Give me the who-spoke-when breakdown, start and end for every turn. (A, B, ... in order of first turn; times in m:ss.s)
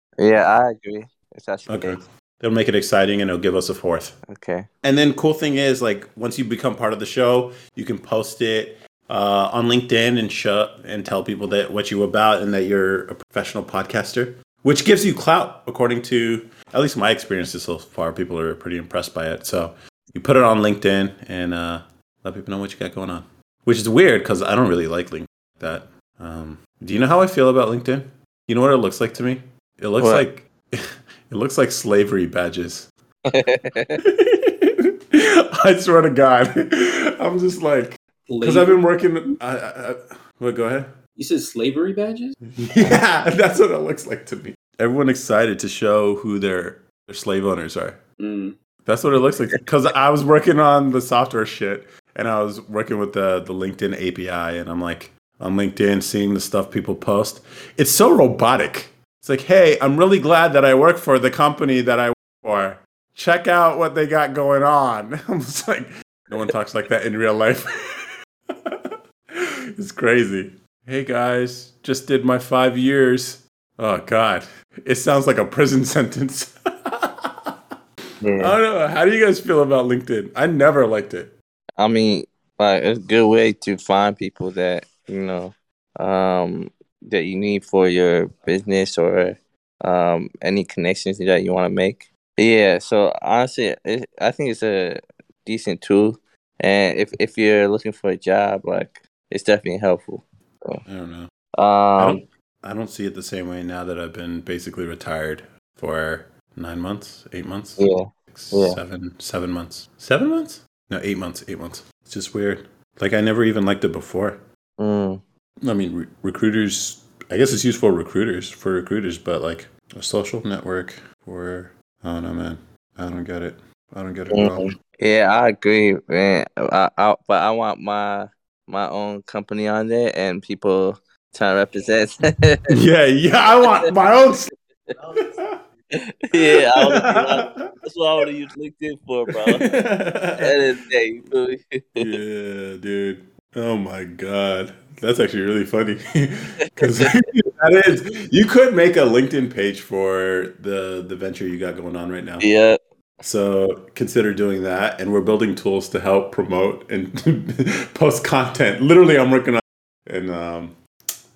0:00.2-0:02.0 A
0:01.7-0:04.2 B
0:04.3-0:04.7 A
0:04.8-0:32.9 B
0:30.0-0:30.2 A
0:33.3-0:34.0 A
0:34.0-0:40.9 B
0:38.3-0:38.8 C
0:41.2-0:42.4 C
0:42.5-0:48.0 B
0:48.2-0:48.6 C
0:48.8-1:08.1 B
1:08.6-1:17.5 B
1:18.2-1:18.6 A
1:18.4-1:21.3 B
1:21.8-1:40.8 A
1:40.9-1:41.3 B
1:41.6-1:42.2 A
1:42.0-1:54.4 B
1:47.8-1:48.8 A
1:54.8-1:55.2 A
1:55.6-2:04.8 B
2:04.3-2:12.7 A
2:12.7-2:14.5 B
2:13.6-2:13.9 A
2:15.2-2:15.6 B
2:16.3-2:19.8 A
2:16.3-2:17.8 B
2:19.4-2:20.7 B
2:20.4-2:22.2 A
2:22.0-2:32.5 B
2:26.8-2:27.1 A
2:32.4-2:32.8 A
2:33.2-2:40.8 B